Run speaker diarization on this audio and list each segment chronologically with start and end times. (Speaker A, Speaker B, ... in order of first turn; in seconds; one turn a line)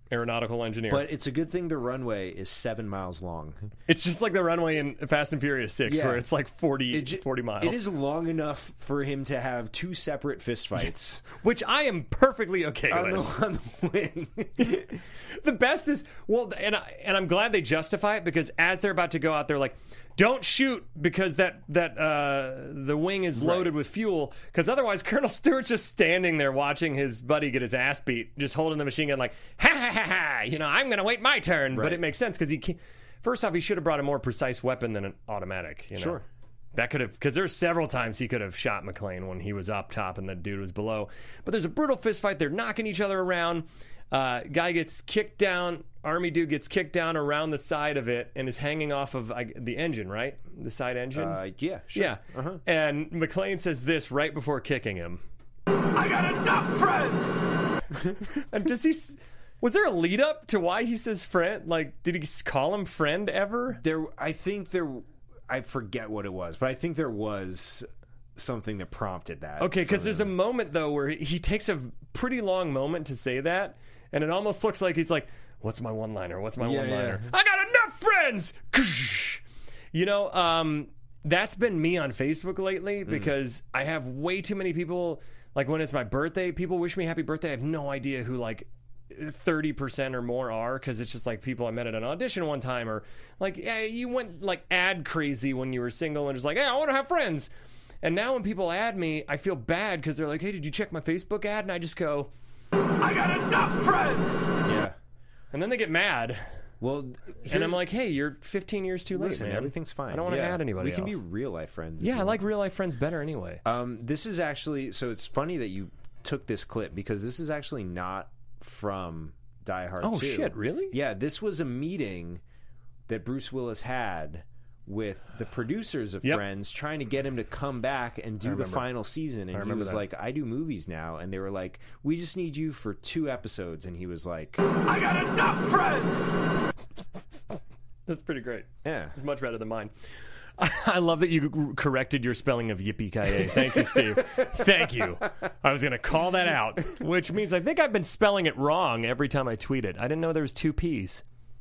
Speaker A: 0.1-1.1
Speaker B: 0.9-3.7
Speaker A: 3.9-7.9
Speaker B: 5.9-6.2
Speaker B: 6.9-11.3
Speaker A: 11.4-13.3
Speaker B: 12.9-14.9
Speaker A: 14.6-14.8
Speaker A: 15.4-36.2
Speaker B: 23.4-23.7
Speaker B: 31.7-32.0
Speaker B: 36.0-36.2
Speaker A: 36.7-51.4
Speaker B: 51.1-52.6
Speaker A: 51.9-55.2
Speaker C: 55.9-57.3
Speaker A: 58.5-63.8
Speaker B: 63.7-70.3
Speaker A: 69.6-97.5
Speaker B: 76.6-77.3
Speaker B: 83.1-83.3
Speaker A: 98.0-102.3
Speaker C: 103.0-104.4
Speaker B: 104.7-105.0
Speaker A: 105.5-106.4
Speaker B: 106.8-107.8
Speaker A: 107.5-111.2
Speaker B: 109.1-112.4
Speaker A: 112.0-113.6
Speaker B: 113.7-122.4
Speaker A: 120.0-121.0
Speaker B: 123.1-134.6
Speaker A: 128.4-128.9
Speaker A: 129.5-130.0
Speaker C: 134.7-136.2
Speaker A: 138.1-139.9
Speaker B: 138.8-139.2
Speaker A: 140.6-151.2
Speaker B: 143.4-144.6